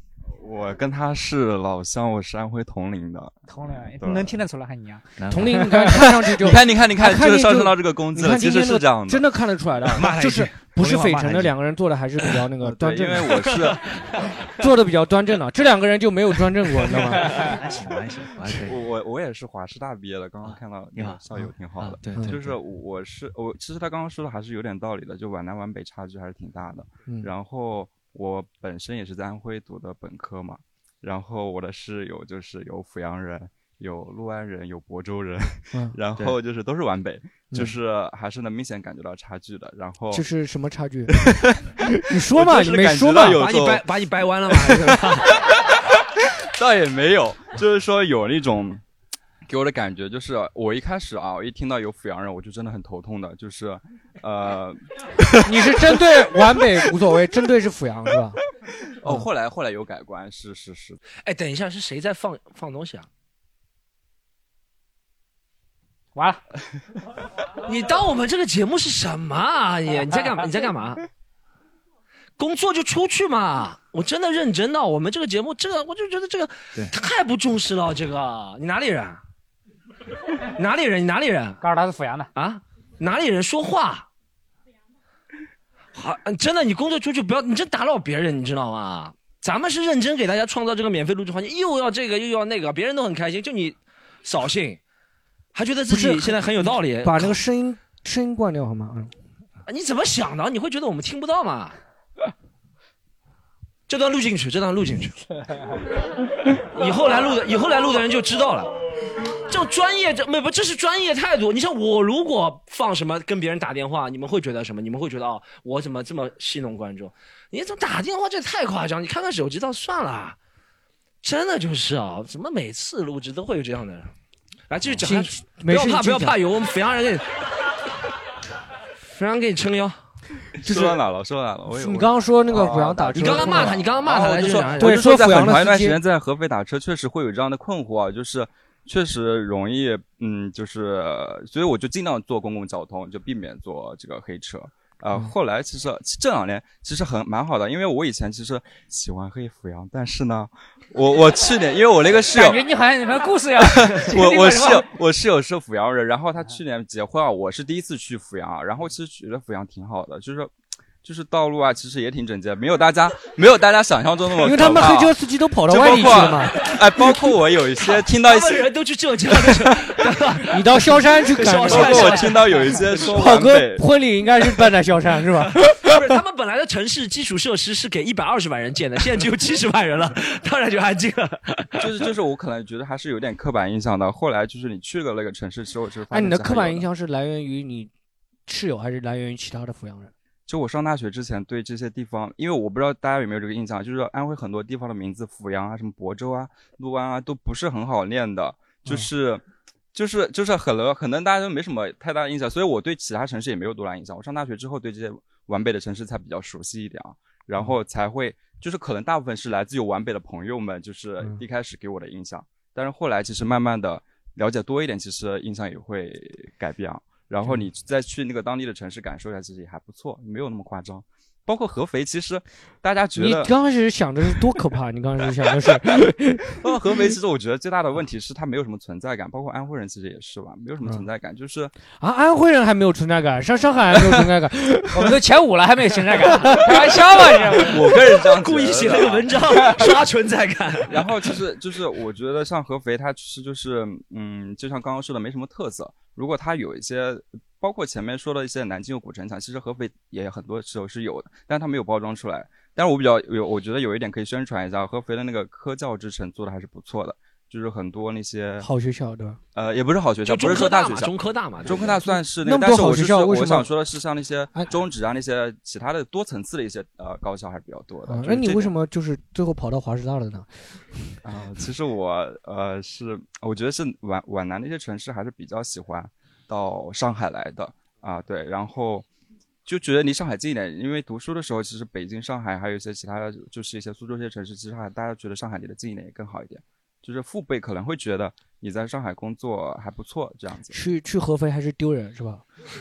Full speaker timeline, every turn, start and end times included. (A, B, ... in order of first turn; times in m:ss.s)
0:00.3-0:03.4 A
0:03.5-0:05.2 B
0:03.9-0:04.4 A
0:05.2-0:06.1 C
0:05.3-0:13.7 D
0:06.3-0:09.4 A
0:09.9-0:11.5 C
0:12.6-0:13.9 A
0:14.5-0:17.6 D
0:17.0-0:18.8 C
0:18.6-0:40.2 A
0:20.4-0:22.6 C
0:22.1-0:22.4 D
0:40.1-0:41.2 D
0:41.1-0:43.9 A
0:42.1-0:43.5 D
0:43.4-0:45.3 E
0:45.2-0:46.0 A
0:46.6-0:48.8 A
0:49.5-0:55.3 A
0:55.4-0:58.4 D
0:59.0-1:01.0 A
0:59.0-0:59.3 D
1:01.2-1:03.1 E
1:06.2-1:06.4 B
1:07.6-1:11.0 E
1:12.4-1:19.2 E
1:20.4-1:21.6 E
1:21.6-1:22.3 B
1:22.4-1:24.1 E
1:26.0-1:34.8 E
1:35.6-1:37.4 E
1:35.9-1:39.1 D
1:39.7-1:41.8 E
1:43.9-1:45.2 E
1:46.5-1:48.8 E
1:49.5-2:00.4 E
2:01.2-2:04.1 E
2:04.7-2:07.5 E
2:05.0-2:06.4 D
2:09.1-2:10.0 E
2:10.6-2:32.7 A
2:10.6-2:11.0 D
2:11.7-2:16.0 D
2:13.1-2:15.0 E
2:32.3-2:34.9 B
2:33.6-2:40.5 A
2:41.0-2:48.7 A
2:44.4-2:46.8 D
2:48.0-2:53.1 E
2:50.5-2:56.2 D
2:51.6-2:53.9 A
2:55.8-3:01.9 E
3:01.8-3:06.9 A
3:06.1-3:07.9 D
3:08.5-3:10.1 D
3:10.5-3:19.4 A
3:19.9-3:43.5 A
3:43.2-3:47.0 D
3:46.6-3:51.7 A
3:51.9-3:55.2 D
3:54.9-3:57.8 B
3:56.5-3:56.7 D
3:57.7-3:59.3 A
3:58.4-4:01.3 E
4:00.9-4:18.7 A
4:18.6-4:19.4 D
4:19.6-4:28.7 A
4:20.2-4:22.0 E
4:22.1-4:23.7 D
4:28.1-4:31.2 D
4:31.2-4:39.1 A
4:39.7-4:50.8 A
4:50.7-4:52.4 D